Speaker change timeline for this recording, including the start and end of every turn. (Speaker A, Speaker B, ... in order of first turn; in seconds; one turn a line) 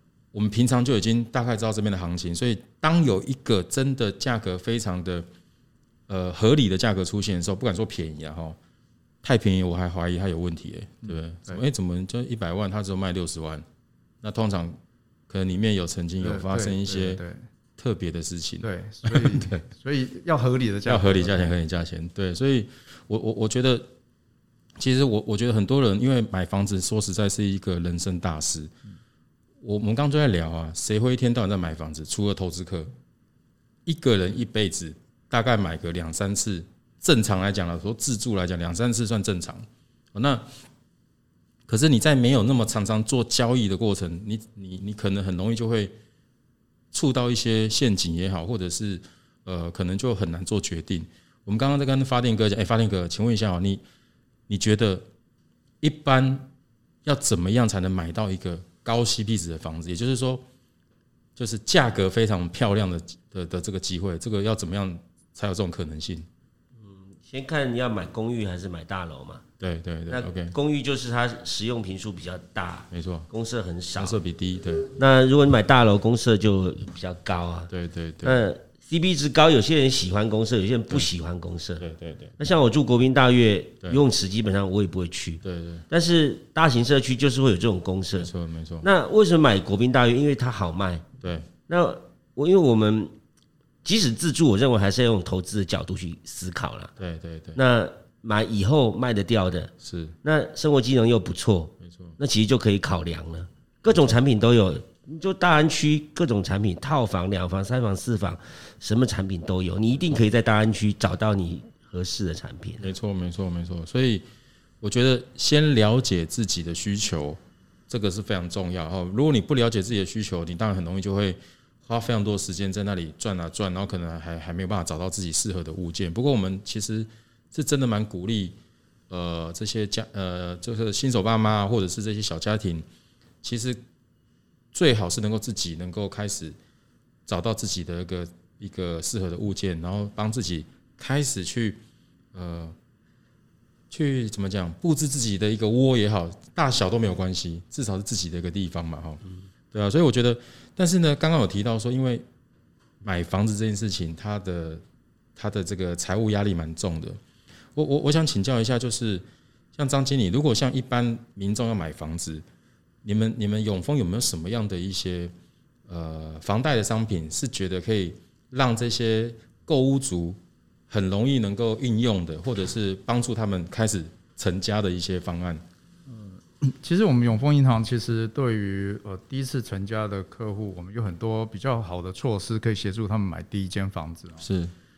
Speaker A: 0.3-5.3
Speaker A: 6.1-8.6
Speaker A: 9.2-13.6
Speaker B: 11.1-11.6
Speaker A: 14.2-14.8
Speaker A: 15.3-17.2
Speaker B: 16.2-17.4
Speaker A: 17.8-19.6
Speaker B: 18.6-21.5
Speaker A: 20.9-23.9
Speaker A: 24.8-28.7
Speaker A: 29.6-32.9
Speaker A: 33.9-40.5
Speaker A: 41.7-45.9
Speaker A: 46.9-53.8
Speaker A: 54.5-55.0
Speaker A: 55.8-56.5
Speaker A: 57.0-60.4
Speaker A: 61.4-66.3
Speaker C: 66.8-69.4
Speaker A: 69.6-70.5
Speaker C: 70.1-74.2
Speaker A: 72.9-73.3
Speaker A: 74.0-74.9
Speaker C: 74.9-77.7
Speaker A: 77.7-78.4
Speaker C: 78.2-81.8
Speaker A: 81.8-82.3
Speaker C: 82.4-88.3
Speaker A: 85.4-85.8
Speaker A: 88.2-88.8
Speaker C: 88.8-91.0
Speaker A: 91.2-91.5
Speaker C: 91.7-93.1
Speaker C: 93.8-96.9
Speaker A: 97.0-97.6
Speaker C: 97.5-99.7
Speaker A: 99.8-100.1
Speaker C: 100.2-112.8
Speaker A: 101.8-102.1
Speaker A: 112.8-114.2
Speaker A: 114.8-128.6
Speaker A: 129.1-132.8
Speaker A: 133.4-133.8
Speaker A: 134.7-136.6
Speaker A: 137.2-141.8
Speaker A: 142.3-142.7
Speaker A: 143.9-149.2
Speaker A: 149.7-152.2
Speaker A: 153.0-154.8
Speaker A: 155.3-157.2
Speaker A: 157.7-162.4
Speaker A: 163.0-165.3
Speaker A: 165.9-170.4
Speaker A: 170.9-175.6
Speaker B: 176.1-184.4
Speaker A: 184.4-184.7